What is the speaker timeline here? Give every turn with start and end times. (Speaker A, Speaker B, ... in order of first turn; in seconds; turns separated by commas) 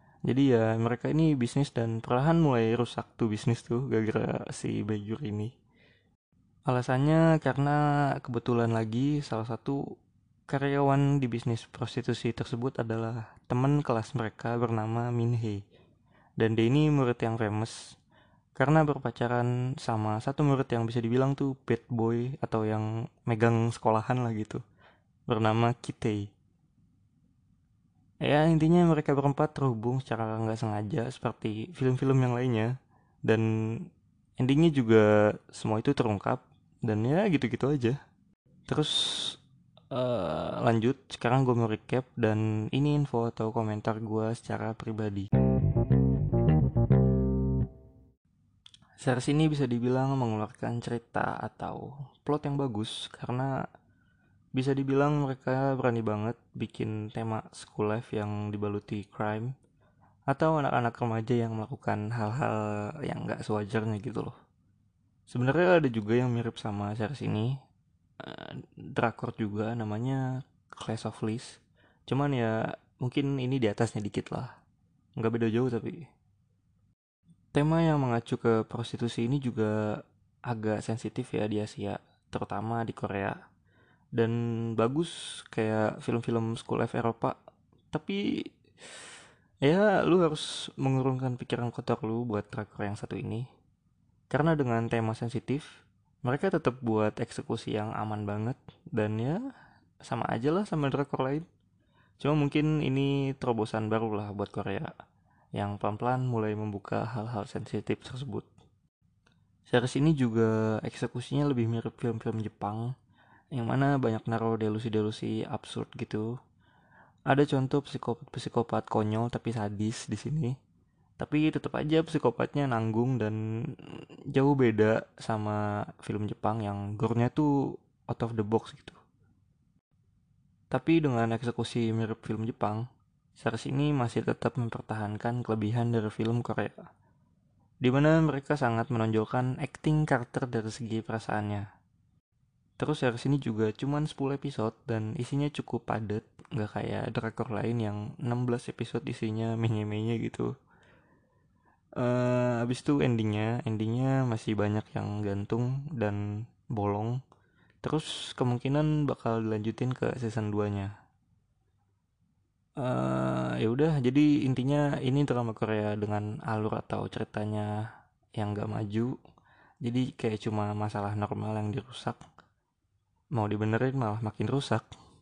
Speaker A: 0.3-5.5, Speaker A: 6.7-9.8, Speaker A: 10.5-15.6, Speaker A: 16.4-18.0, Speaker A: 18.6-24.6, Speaker A: 25.3-26.3, Speaker A: 28.2-32.7, Speaker A: 34.4-38.0, Speaker A: 38.7-39.4, Speaker A: 39.9-45.3, Speaker A: 49.0-53.5, Speaker A: 54.5-59.5, Speaker A: 60.3-64.3, Speaker A: 65.3-67.5, Speaker A: 68.2-70.2, Speaker A: 70.8-74.5, Speaker A: 75.2-76.1, Speaker A: 77.5-83.4, Speaker A: 84.2-87.4, Speaker A: 87.9-88.4, Speaker A: 89.6-93.5, Speaker A: 94.3-99.4, Speaker A: 100.0-101.5, Speaker A: 102.2-104.9, Speaker A: 105.6-108.5, Speaker A: 109.7-112.9, Speaker A: 113.5-116.3, Speaker A: 117.3-120.5, Speaker A: 121.2-127.5, Speaker A: 128.1-129.0, Speaker A: 130.7-132.9, Speaker A: 133.4-136.9, Speaker A: 137.8-141.7, Speaker A: 142.8-150.5, Speaker A: 152.0-156.2, Speaker A: 156.7-157.2, Speaker A: 157.8-160.9, Speaker A: 162.8-167.7, Speaker A: 168.4-169.2, Speaker A: 169.8-172.2, Speaker A: 173.3-174.9